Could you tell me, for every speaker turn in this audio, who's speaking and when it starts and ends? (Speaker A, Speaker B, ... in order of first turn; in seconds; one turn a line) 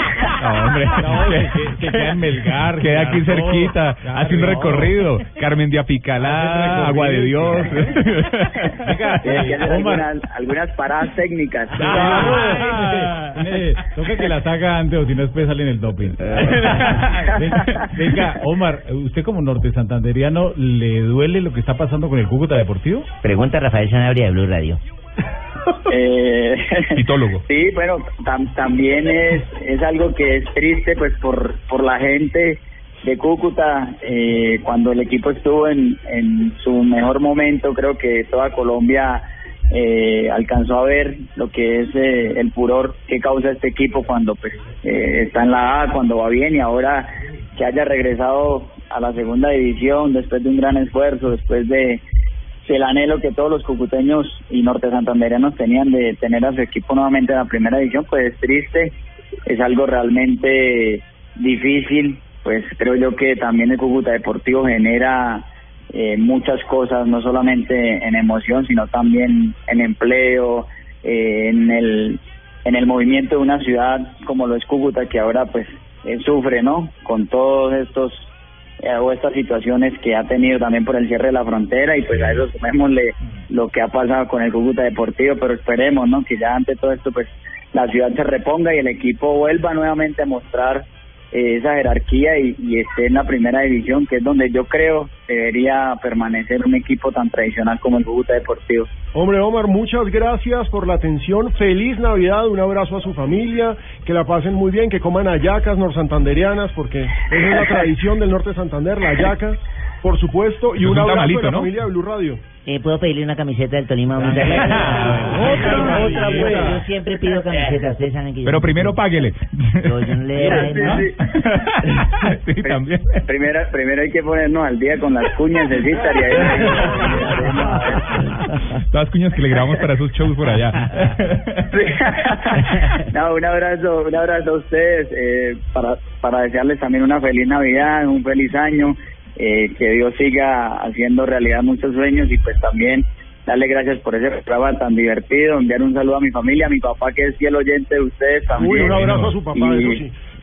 Speaker A: 0.4-5.2
Speaker B: 0.4-1.6
Speaker B: 2.8-8.7
Speaker A: 6.2-8.1
Speaker A: 8.8-10.0
Speaker C: 9.2-12.2
Speaker A: 11.7-23.1
Speaker D: 23.2-24.8
Speaker C: 25.9-52.0
Speaker B: 26.9-27.4
Speaker C: 52.6-58.9
Speaker C: 59.5-78.3
Speaker C: 78.8-98.9
Speaker E: 99.1-112.4
Speaker B: 110.8-111.7
Speaker D: 112.7-119.0
Speaker A: 115.3-116.7
Speaker B: 118.4-123.2
Speaker D: 119.8-121.0
Speaker C: 120.4-121.2
Speaker C: 122.6-128.2
Speaker B: 128.9-131.7
Speaker C: 131.7-150.0
Speaker E: 148.6-150.1